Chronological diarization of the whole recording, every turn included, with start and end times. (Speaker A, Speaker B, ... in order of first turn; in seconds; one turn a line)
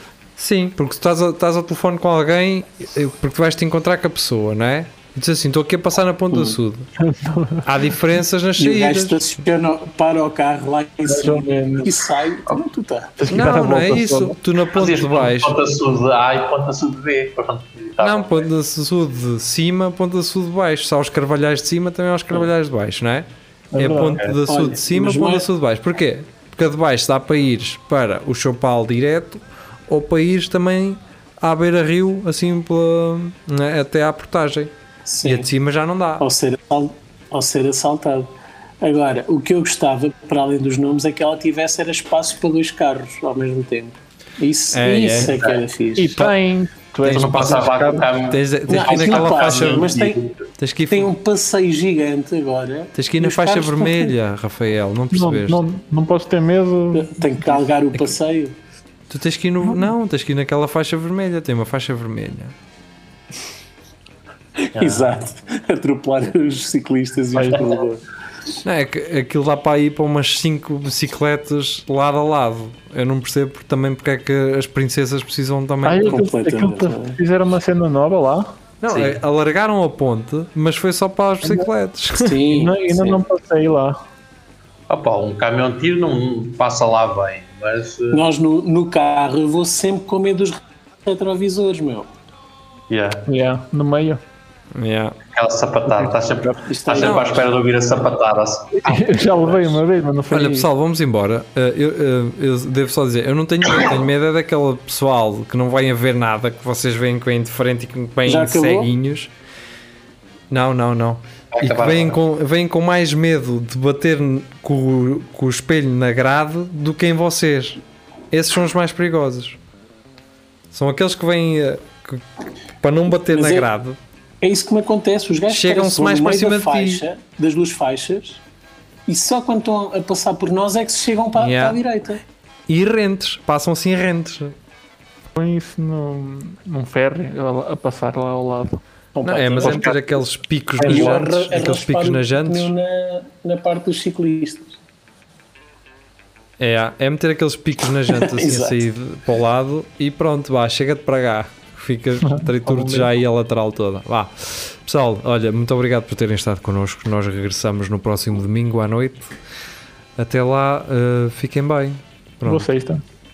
Speaker A: 0.4-6.9
Speaker B: 6.3-6.6
Speaker C: 7.0-7.7
Speaker A: 7.6-9.2
Speaker B: 8.6-13.2
Speaker C: 11.1-12.0
Speaker C: 13.2-14.4
Speaker A: 13.3-15.6
Speaker D: 14.7-18.4
Speaker A: 18.0-36.2
Speaker C: 23.7-24.2
Speaker B: 24.4-25.4
Speaker B: 35.0-35.5
Speaker B: 36.2-46.3
Speaker A: 44.7-45.4
Speaker C: 46.0-48.1
Speaker A: 47.0-47.7
Speaker D: 47.0-50.4
Speaker A: 48.3-49.9
Speaker B: 48.7-50.2
Speaker A: 50.6-51.1
Speaker B: 50.9-54.1
Speaker A: 53.0-55.6
Speaker C: 55.1-57.5
Speaker B: 56.9-58.5
Speaker A: 59.1-62.5
Speaker B: 64.7-68.0
Speaker D: 64.8-65.1
Speaker A: 68.6-76.2
Speaker C: 75.8-78.5
Speaker B: 76.0-77.2
Speaker A: 78.8-82.4
Speaker B: 82.2-83.2
Speaker C: 82.5-84.0
Speaker D: 84.9-88.2
Speaker B: 88.1-92.1
Speaker D: 92.9-93.2
Speaker C: 93.3-94.2
Speaker A: 94.7-95.2
Speaker D: 95.3-99.1
Speaker C: 95.9-96.5
Speaker B: 96.6-97.5
Speaker A: 97.0-97.3
Speaker C: 98.8-100.7
Speaker A: 100.3-109.3
Speaker B: 108.3-108.9
Speaker A: 110.5-117.8
Speaker D: 111.5-112.2
Speaker A: 118.3-119.6
Speaker A: 120.7-122.2
Speaker A: 122.8-124.0
Speaker B: 123.3-123.7
Speaker B: 124.4-128.4
Speaker A: 125.5-127.0
Speaker B: 129.1-132.2
Speaker A: 131.4-131.8
Speaker A: 132.7-134.5
Speaker C: 135.3-138.8
Speaker B: 139.1-140.0
Speaker A: 139.2-142.7
Speaker C: 140.8-141.2
Speaker B: 140.8-144.8
Speaker A: 146.6-159.3
Speaker B: 148.1-148.7
Speaker A: 160.2-162.7
Speaker C: 162.4-163.0